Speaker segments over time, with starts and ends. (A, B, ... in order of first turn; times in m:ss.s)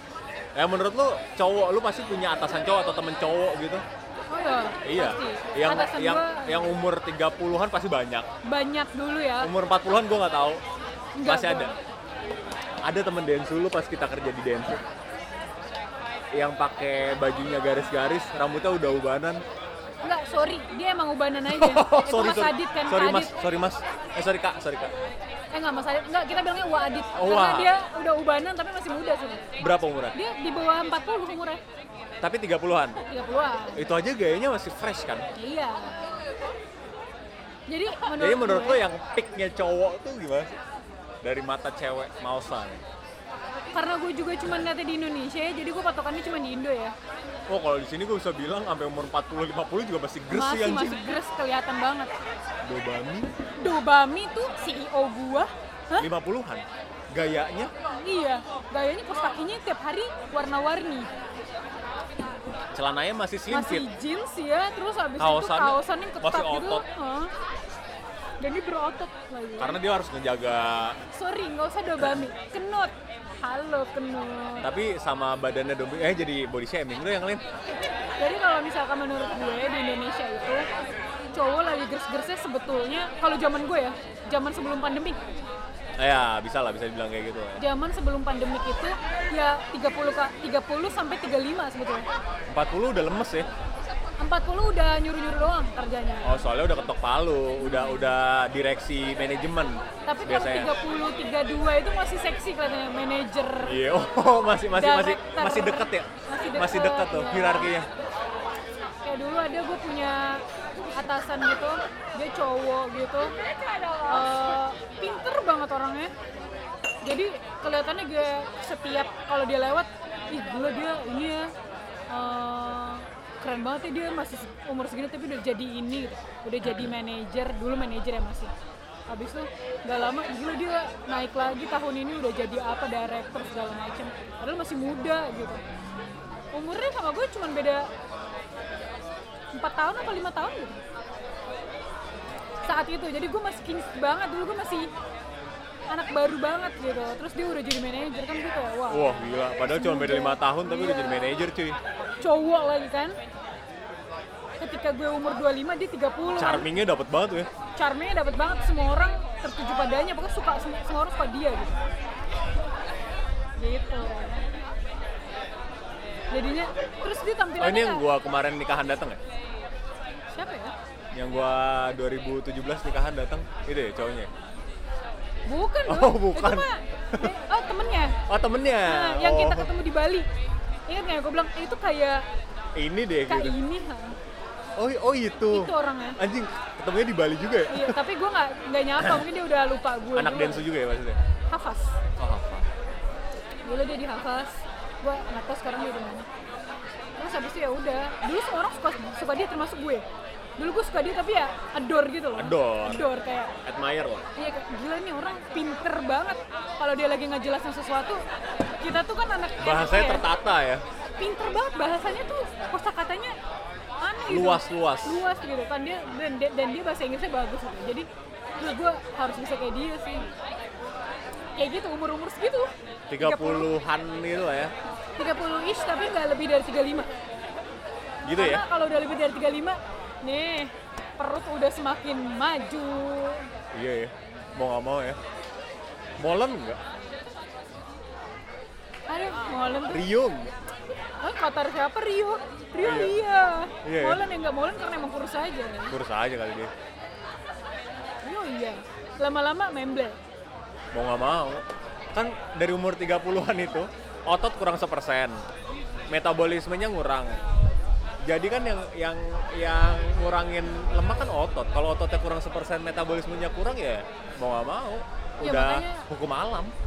0:00.6-0:03.8 A
0:04.3-0:06.8 B
0:04.8-0:08.3 A
0:08.4-0:09.5 B
0:09.4-0:10.6 A
0:11.2-0:11.8 B
0:11.2-0:11.7 A
0:12.8-0:14.8 A
0:16.3-0:19.4 A
0:20.0-0:23.3 B
0:21.5-0:24.9 A
0:25.5-0:29.5 B
0:27.1-0:27.7 A
0:29.6-0:30.2 A
0:30.1-0:31.6 B
0:32.2-0:33.0 A
0:33.0-0:33.9 B
0:33.8-0:35.3 A
0:35.4-0:36.2 B
0:37.7-0:38.8 B
0:38.1-0:40.5 A
0:41.2-0:42.8 A
0:43.7-0:47.0 B
0:47.5-0:51.2 A
0:50.3-0:52.1 B
0:52.6-0:53.3 A
0:53.6-0:56.1 B
0:56.0-0:57.7 A
0:57.9-1:01.1 B
1:02.7-1:03.9 A
1:03.5-1:07.3 B
1:05.2-1:06.8 A
1:08.4-1:09.8 B
1:09.6-1:11.0 A
1:11.1-1:14.7 B
1:14.6-1:17.4 A
1:18.2-1:20.7 B
1:21.3-1:25.2 B
1:26.0-1:27.6 A
1:27.6-1:32.1 B
1:32.5-1:33.5 A
1:34.2-1:36.4 B
1:36.2-1:40.7 A
1:37.6-1:38.1 B
1:40.1-1:43.8 B
1:43.6-1:47.9 A
1:44.7-1:47.7 B
1:49.0-1:50.4 B
1:50.9-1:53.4 B
1:54.0-1:56.1 B
1:57.0-2:01.5 B
2:02.1-2:08.5 B
2:09.1-2:15.6 B
2:16.5-2:17.9 B
2:19.5-2:20.8 B
2:22.6-2:24.9 B
2:25.9-2:31.5 B
2:28.9-2:31.8 A
2:32.2-2:33.2 B
2:34.6-2:36.7 B
2:36.4-2:37.5 A
2:37.8-2:41.8 B
2:43.6-2:44.4 B
2:46.3-2:48.0 B
2:47.6-2:49.2 A
2:50.3-2:50.7 B
2:51.1-2:54.3 A
2:55.5-2:58.2 B
2:55.9-2:57.3 A
2:58.3-2:59.7 A
2:58.8-3:00.3 B
3:00.9-3:02.2 B
3:02.8-3:03.6 A
3:03.3-3:04.2 B
3:04.8-3:08.0 A
3:05.5-3:06.2 B
3:07.7-3:10.7 B
3:09.0-3:09.3 A
3:10.2-3:11.2 A
3:11.5-3:12.0 B
3:12.2-3:12.7 A
3:13.6-3:16.3 B
3:17.2-3:20.0 B
3:20.6-3:23.5 B
3:22.4-3:23.0 A
3:23.6-3:24.3 A
3:24.4-3:28.2 B
3:28.8-3:30.3 B
3:29.6-3:30.8 A
3:31.2-3:33.4 B
3:34.0-3:38.1 B
3:34.3-3:35.2 A
3:38.6-3:40.3 B
3:41.6-3:43.7 B
3:43.1-3:44.7 A
3:45.2-3:47.1 B
3:48.3-3:48.6 A
3:48.3-3:53.5 B
3:53.7-3:55.2 A
3:56.2-3:56.8 A
3:59.1-4:00.0 B
3:59.9-4:00.5 A
4:01.2-4:05.9 B
4:02.8-4:03.2 A
4:03.8-4:04.2 A
4:05.9-4:06.7 A
4:08.2-4:10.2 B
4:10.9-4:15.4 A
4:16.1-4:17.4 A
4:18.2-4:26.7 A
4:25.4-4:26.1 B